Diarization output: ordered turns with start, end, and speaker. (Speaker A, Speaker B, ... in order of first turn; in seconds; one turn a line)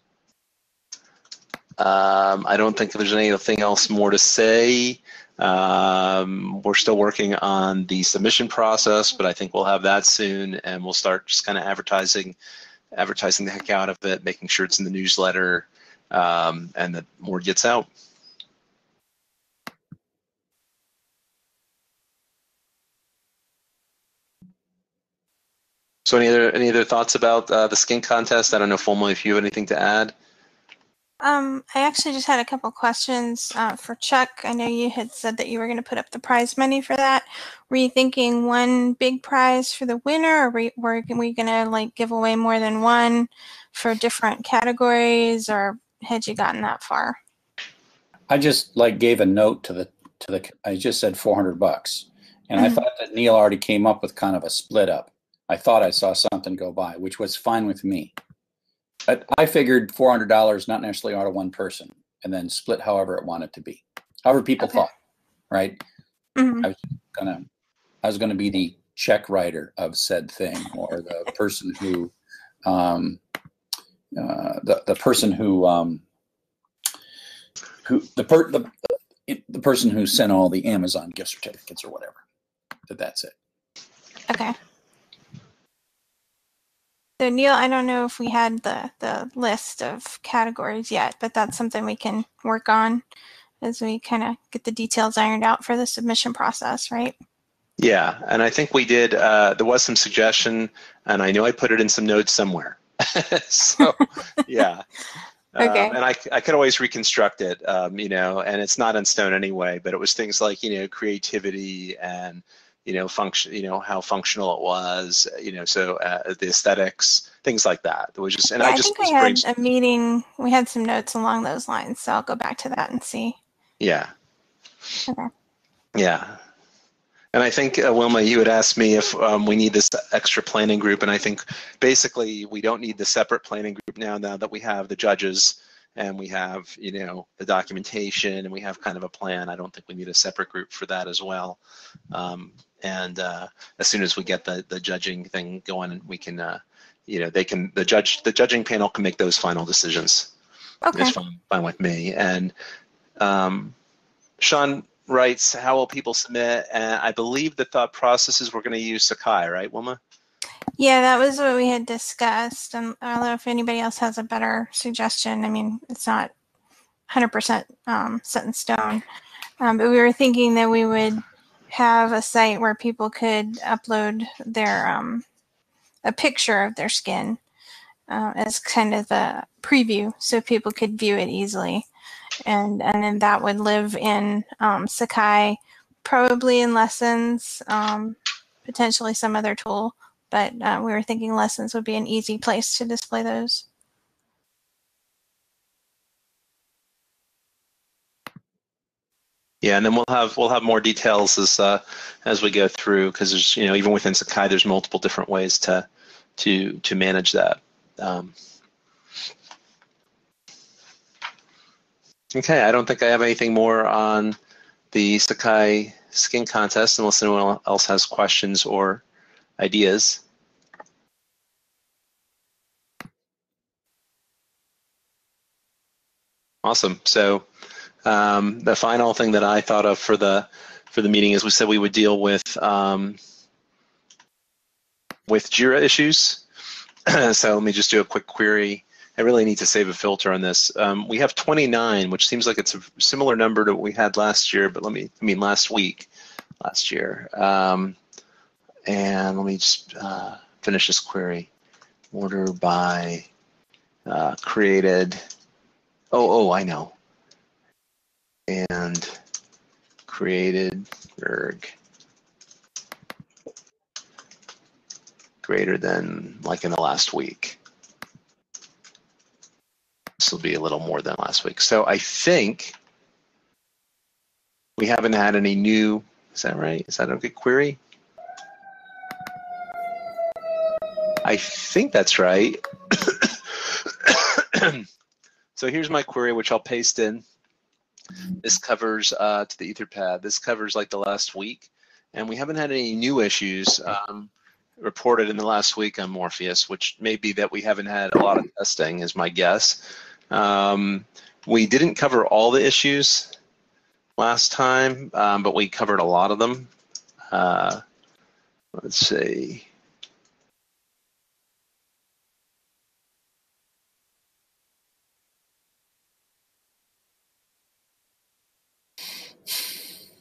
Speaker A: 1.8-12.3
Speaker A: 12.9-17.9
Speaker A: 26.0-30.1
Speaker B: 31.2-47.2
Speaker C: 48.3-58.1
Speaker C: 59.1-64.9
Speaker C: 65.5-65.8
Speaker B: 66.4-66.7
Speaker C: 66.6-67.5
Speaker C: 68.0-72.1
Speaker C: 72.6-73.2
Speaker C: 74.1-76.0
Speaker C: 77.8-82.2
Speaker C: 82.9-83.3
Speaker B: 84.3-84.5
Speaker B: 87.2-93.0
Speaker B: 93.6-97.1
Speaker A: 97.8-104.9
Speaker A: 105.5-119.4
Speaker B: 105.6-106.0
Speaker B: 118.6-123.4
Speaker A: 123.8-124.1
Speaker A: 125.9-126.4
Speaker A: 127.3-141.6
Speaker A: 142.1-150.3
Speaker B: 150.8-151.1
Speaker A: 150.9-152.5
Speaker A: 153.2-153.7
Speaker A: 154.4-160.0
Speaker B: 160.8-166.3
Speaker B: 167.1-169.0
Speaker B: 169.6-175.2
Speaker B: 176.0-177.4
Speaker B: 178.1-181.9
Speaker B: 182.4-193.6
Speaker A: 199.6-208.3
Speaker A: 212.3-214.4
Speaker A: 214.9-219.0
Speaker A: 219.6-220.2
Speaker A: 226.6-227.4
Speaker A: 228.0-233.2
Speaker A: 235.3-236.4
Speaker A: 237.1-246.1
Speaker A: 246.6-248.0
Speaker A: 248.9-251.5
Speaker A: 252.1-253.3
Speaker A: 254.1-255.2
Speaker A: 256.1-256.9
Speaker A: 258.5-259.2
Speaker A: 260.1-261.7
Speaker A: 265.4-267.6
Speaker A: 270.2-272.8
Speaker A: 274.8-277.8
Speaker A: 281.2-284.9
Speaker A: 285.6-287.2
Speaker A: 288.4-303.3
Speaker A: 304.2-306.7
Speaker A: 307.3-307.8
Speaker A: 308.7-309.6